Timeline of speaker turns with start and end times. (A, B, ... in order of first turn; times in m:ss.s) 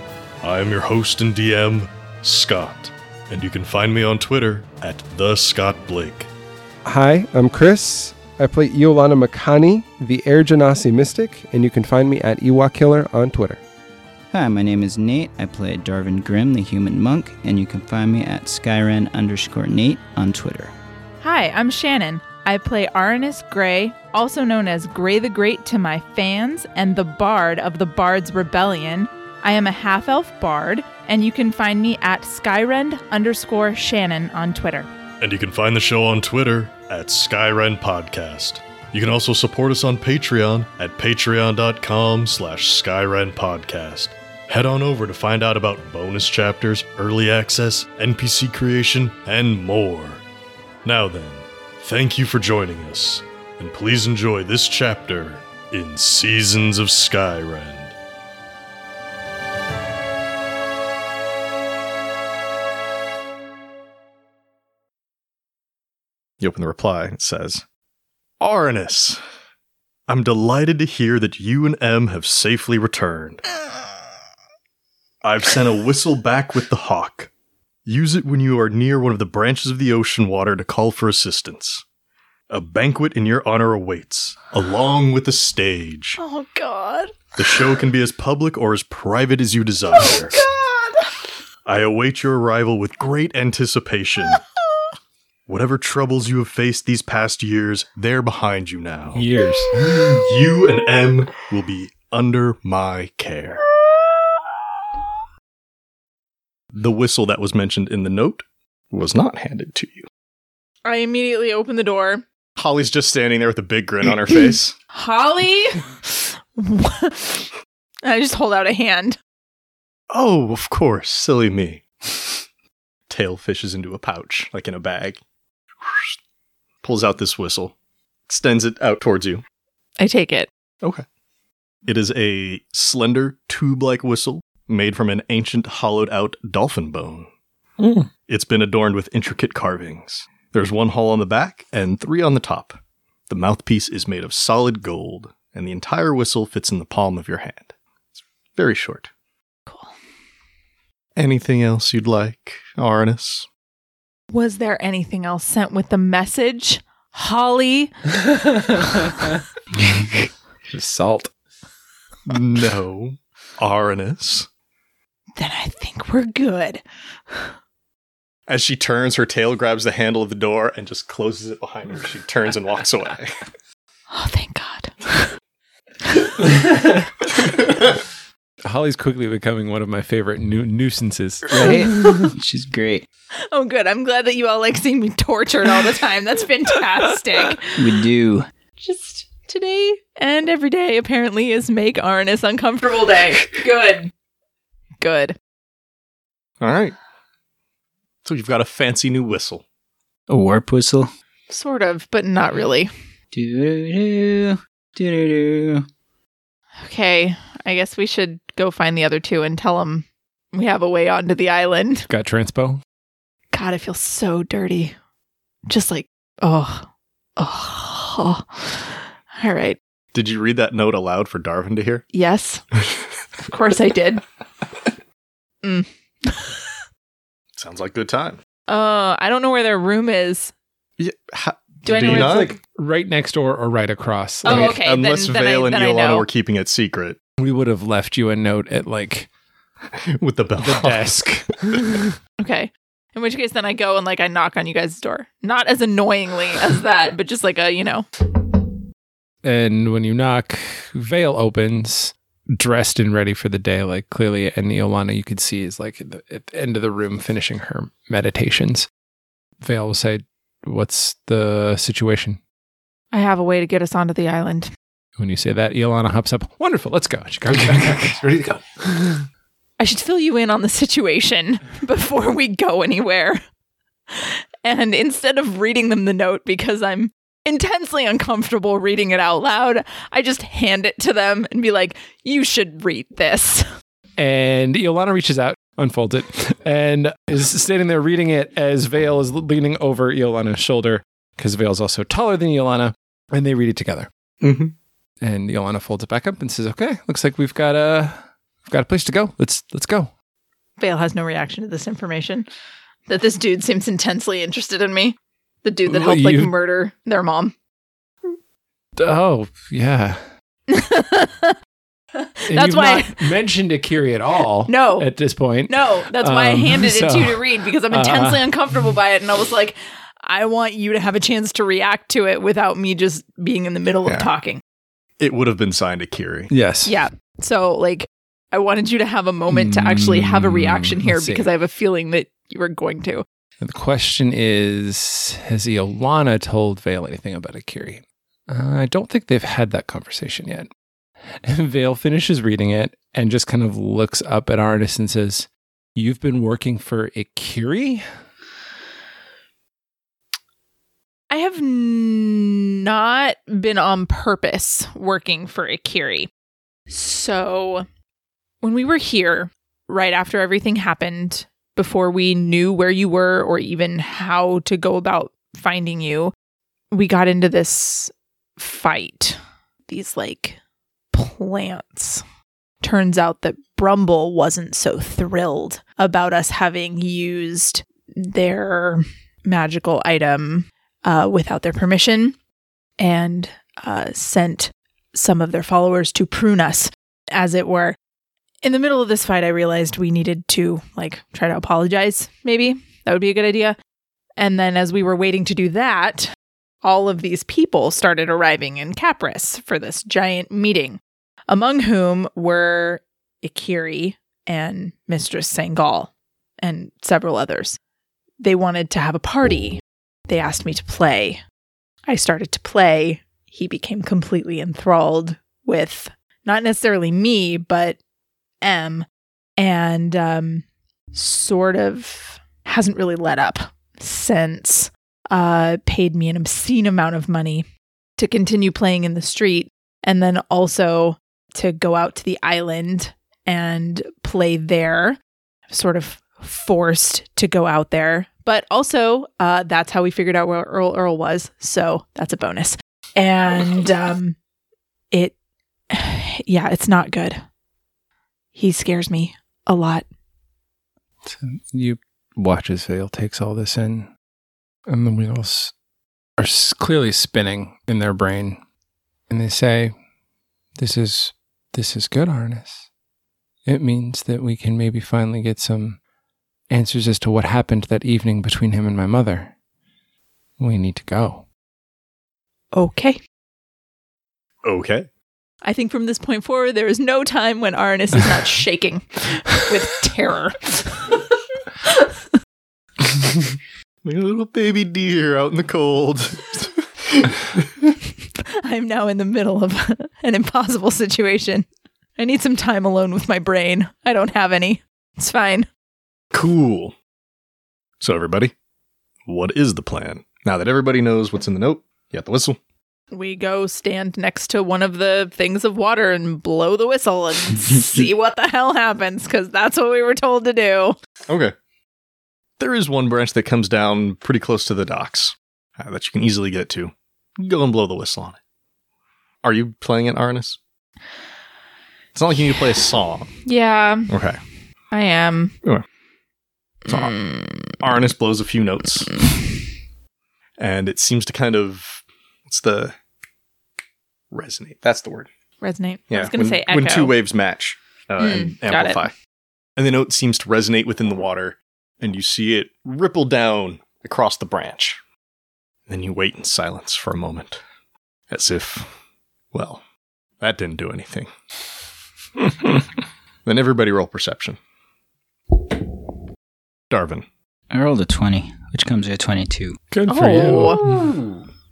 0:00.4-0:06.3 A
0:06.8-0:13.6 B
0:14.3-0:20.7 C
0:21.2-0:34.9 D
0:35.2-0:50.2 A
0:50.8-0:57.9 A
1:06.4-1:07.6 A
1:08.4-1:09.2 A
1:10.1-1:13.4 A
1:15.2-1:17.3 A
1:17.8-1:21.8 A
1:22.5-1:26.2 A
1:26.2-1:27.2 D
1:27.4-1:30.4 A
1:30.0-1:31.1 D
1:31.6-1:34.4 A
1:35.5-1:39.2 A
1:39.1-1:40.2 E
1:40.1-1:43.6 A
1:46.7-1:50.1 A
1:50.8-1:52.2 D
1:52.6-1:54.8 A
1:54.9-1:57.5 D
1:58.0-1:59.2 D
2:00.1-2:01.8 A
2:03.1-2:05.2 A
2:05.8-2:06.1 A
2:06.8-2:07.7 A
2:08.3-2:09.4 A
2:10.0-2:10.5 D
2:11.8-2:27.7 A
2:28.5-2:29.1 A
2:29.7-2:29.9 D
2:31.2-2:33.5 A
2:34.3-2:37.9 D
2:40.7-2:41.3 E
2:42.2-2:44.5 A
2:45.4-2:47.5 D
2:48.5-2:53.4 A
2:54.1-2:55.3 D
2:58.6-3:02.1 E
3:01.5-3:03.0 C
3:02.0-3:02.3 D
3:03.4-3:07.8 D
3:07.7-3:08.5 C
3:08.8-3:14.1 D
3:15.0-3:15.4 D
3:16.6-3:16.9 A
3:18.2-3:19.6 A
3:20.3-3:21.1 C
3:21.5-3:22.9 D
3:23.3-3:25.8 C
3:26.8-3:32.1 D
3:32.1-3:32.8 E
3:33.5-3:34.9 D
3:35.7-3:39.8 D
3:40.1-3:42.0 A
3:42.1-3:42.6 D
3:43.4-3:44.2 D
3:45.6-3:46.7 D
3:47.6-3:48.4 A
3:48.7-3:50.5 D
3:51.0-3:52.6 A
3:51.8-3:52.5 D
3:51.9-3:54.8 E
3:54.4-3:56.3 D
3:54.4-3:57.2 A
3:57.4-3:59.3 E
4:00.1-4:01.1 A
4:00.6-4:02.1 E
4:02.4-4:08.1 D
4:09.4-4:18.9 E
4:19.6-4:22.4 E
4:23.1-4:24.7 D
4:25.2-4:29.2 E
4:29.8-4:33.4 D
4:34.1-4:43.7 D
4:44.2-4:54.1 E
4:54.4-4:54.7 A
4:55.2-5:00.1 E
5:00.8-5:02.4 D
5:03.1-5:07.5 D
5:05.8-5:06.5 E
5:09.0-5:10.2 E
5:10.7-5:11.6 D
5:12.2-5:13.3 D
5:12.5-5:18.4 E
5:14.7-5:15.1 D
5:15.7-5:24.6 D
5:24.0-5:24.3 A
5:25.2-5:26.5 A
5:26.5-5:26.9 E
5:26.8-5:33.2 D
5:29.5-5:31.5 E
5:33.6-5:40.7 E
5:41.4-5:48.0 E
5:51.3-5:56.3 D
5:56.9-5:57.8 D
5:58.6-6:06.3 D
6:06.9-6:10.6 D
6:11.1-6:12.2 D
6:12.8-6:22.4 D
6:23.0-6:28.0 D
6:28.6-6:33.8 D
6:34.4-6:36.3 D
6:36.8-6:46.1 D
6:46.6-6:47.8 D
6:48.4-6:51.4 D
6:52.1-6:58.0 D
6:58.6-6:59.1 D
6:59.6-7:07.6 D
7:08.2-7:15.2 D
7:15.7-7:24.4 D
7:25.9-7:27.4 D
7:28.5-7:30.0 D
7:31.2-7:34.1 E
7:34.9-7:35.7 E
7:36.4-7:38.6 E
7:39.3-7:39.9 E
7:40.8-7:42.8 E
7:43.6-7:46.0 E
7:46.7-7:49.5 E
7:50.6-7:51.4 E
7:52.7-7:53.2 D
7:54.6-7:55.1 A
7:55.6-8:01.2 D
8:01.8-8:02.2 D
8:04.0-8:07.4 A
8:08.6-8:15.7 D
8:16.3-8:16.9 A
8:18.0-8:18.5 A
8:19.2-8:22.6 A
8:23.1-8:31.0 D
8:31.3-8:31.5 A
8:32.6-8:38.4 A
8:39.4-8:40.6 A
8:42.1-8:43.3 A
8:43.4-8:44.1 D
8:44.1-8:44.4 A
8:44.9-8:45.5 D
8:46.9-8:49.2 A
8:46.9-8:47.5 D
8:50.6-8:52.9 A
8:54.3-8:55.3 A
8:55.6-8:57.1 D
8:56.1-8:59.1 A
8:58.2-8:59.0 D
8:59.8-9:05.0 A
9:05.9-9:07.6 A
9:08.3-9:08.9 A
9:09.5-9:09.8 A
9:10.4-9:11.3 A
9:13.4-9:14.6 A
9:16.9-9:17.2 A
9:17.7-9:19.8 C
9:19.9-9:21.2 E
9:20.1-9:20.8 D